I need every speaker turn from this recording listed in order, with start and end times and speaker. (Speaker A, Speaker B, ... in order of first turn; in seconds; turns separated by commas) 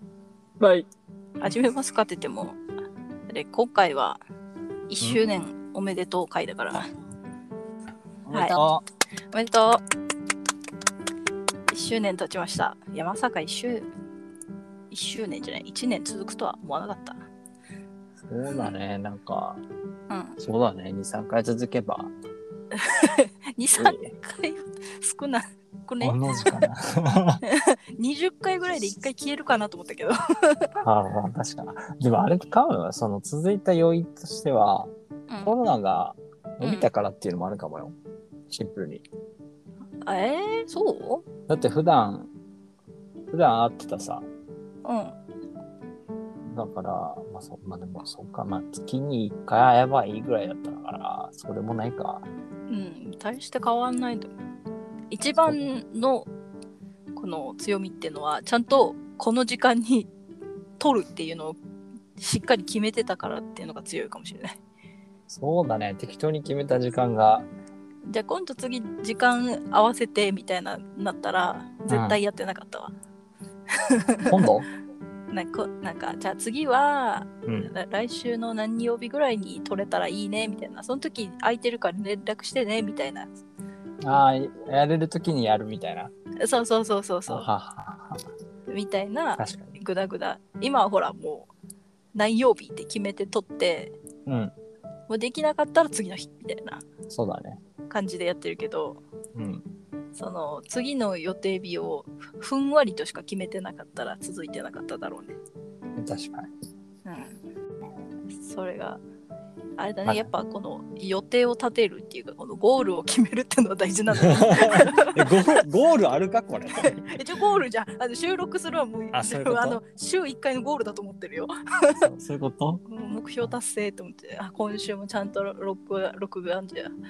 Speaker A: 0.6-0.9, Speaker B: 1.4-2.6, Speaker B: 3.3-4.2, Speaker B: 4.9-6.9, Speaker A: 8.2-8.8, Speaker B: 8.3-8.6, Speaker B: 9.3-9.8, Speaker B: 11.7-13.8, Speaker B: 14.9-17.2, Speaker A: 18.2-19.6, Speaker B: 20.1-20.4, Speaker A: 20.4-22.1, Speaker B: 22.7-26.6, Speaker A: 23.8-24.1, Speaker A: 26.0-27.4, Speaker B: 27.4-30.7, Speaker A: 30.8-34.9, Speaker A: 35.4-38.0, Speaker B: 36.6-36.9, Speaker A: 38.5-39.0, Speaker B: 40.0-41.2, Speaker A: 41.5-42.3, Speaker A: 43.3-44.2, Speaker B: 44.8-45.1, Speaker A: 46.5-52.2, Speaker B: 52.7-54.3, Speaker B: 55.1-56.3, Speaker A: 55.4-55.6, Speaker B: 57.1-60.1, Speaker B: 60.8-61.6, Speaker B: 62.2-64.6, Speaker A: 65.3-67.5, Speaker B: 68.1-72.9, Speaker A: 71.9-72.2, Speaker B: 73.7-74.3, Speaker A: 74.2-74.7, Speaker B: 75.3-83.4, Speaker A: 77.5-77.7, Speaker A: 84.0-86.1, Speaker B: 86.4-87.5, Speaker A: 87.3-88.2, Speaker B: 88.7-91.5, Speaker A: 89.4-89.8, Speaker B: 92.1-93.9, Speaker A: 94.2-94.5, Speaker B: 95.1-96.8, Speaker A: 97.1-97.6, Speaker B: 97.9-99.0, Speaker A: 99.3-99.6, Speaker B: 100.2-105.3, Speaker A: 106.0-106.5, Speaker B: 107.0-107.4, Speaker B: 108.4-109.0, Speaker B: 109.8-115.6, Speaker A: 114.2-117.2, Speaker B: 116.8-122.1, Speaker A: 119.1-119.8, Speaker A: 122.0-122.8, Speaker B: 122.9-126.9